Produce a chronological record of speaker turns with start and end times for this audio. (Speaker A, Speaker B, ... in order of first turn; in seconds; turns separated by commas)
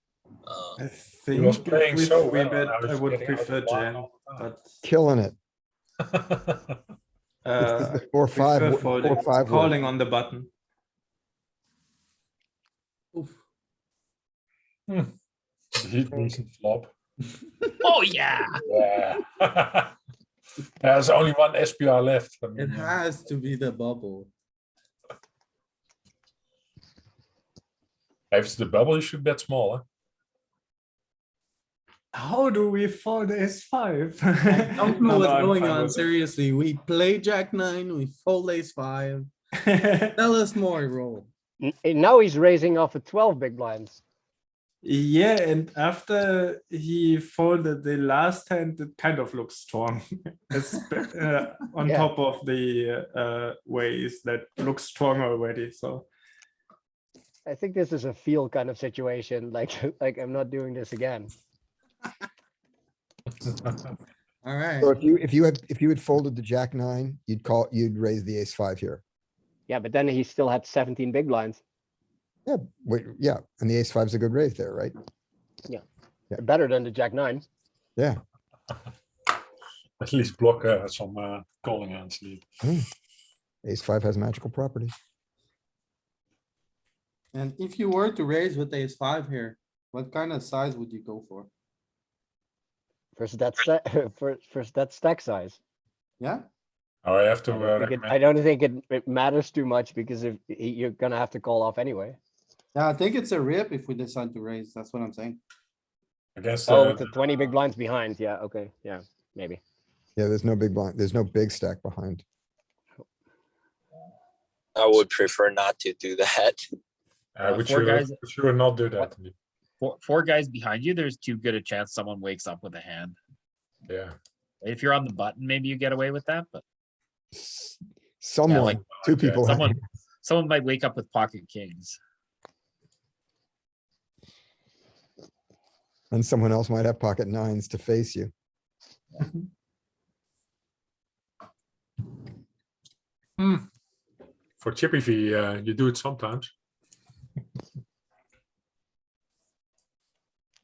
Speaker A: 0.4-0.8, Speaker B: 0.8-4.7, Speaker C: 1.3-4.5, Speaker D: 4.8-5.3, Speaker C: 6.1-6.6, Speaker B: 7.4-10.5, Speaker D: 7.6-9.8, Speaker C: 15.7-16.9, Speaker E: 17.8-18.6, Speaker C: 18.6-19.9, Speaker C: 20.8-22.9, Speaker F: 22.6-24.3, Speaker C: 28.3-29.8, Speaker B: 32.1-36.1, Speaker F: 34.5-39.3, Speaker B: 39.6-40.2, Speaker F: 40.1-41.3, Speaker G: 41.6-44.0, Speaker B: 44.8-56.1, Speaker G: 51.8-52.1, Speaker G: 57.5-61.3, Speaker F: 64.4-64.9, Speaker D: 64.8-69.0, Speaker G: 69.7-71.6, Speaker D: 72.5-74.9, Speaker G: 76.3-77.4, Speaker C: 80.0-82.4, Speaker D: 83.6-84.9, Speaker F: 87.3-91.5, Speaker G: 93.2-95.6, Speaker F: 96.2-96.4, Speaker C: 97.0-98.1, Speaker G: 97.5-102.2, Speaker F: 102.7-105.4, Speaker C: 106.3-107.1, Speaker G: 106.7-109.6, Speaker D: 110.2-112.2, Speaker A: 114.8-116.6, Speaker C: 117.3-119.3, Speaker E: 117.4-118.2, Speaker E: 119.8-123.2, Speaker C: 123.9-124.1, Speaker E: 124.6-126.6, Speaker D: 127.3-129.8, Speaker E: 128.5-132.0, Speaker D: 136.1-138.3, Speaker C: 144.6-146.5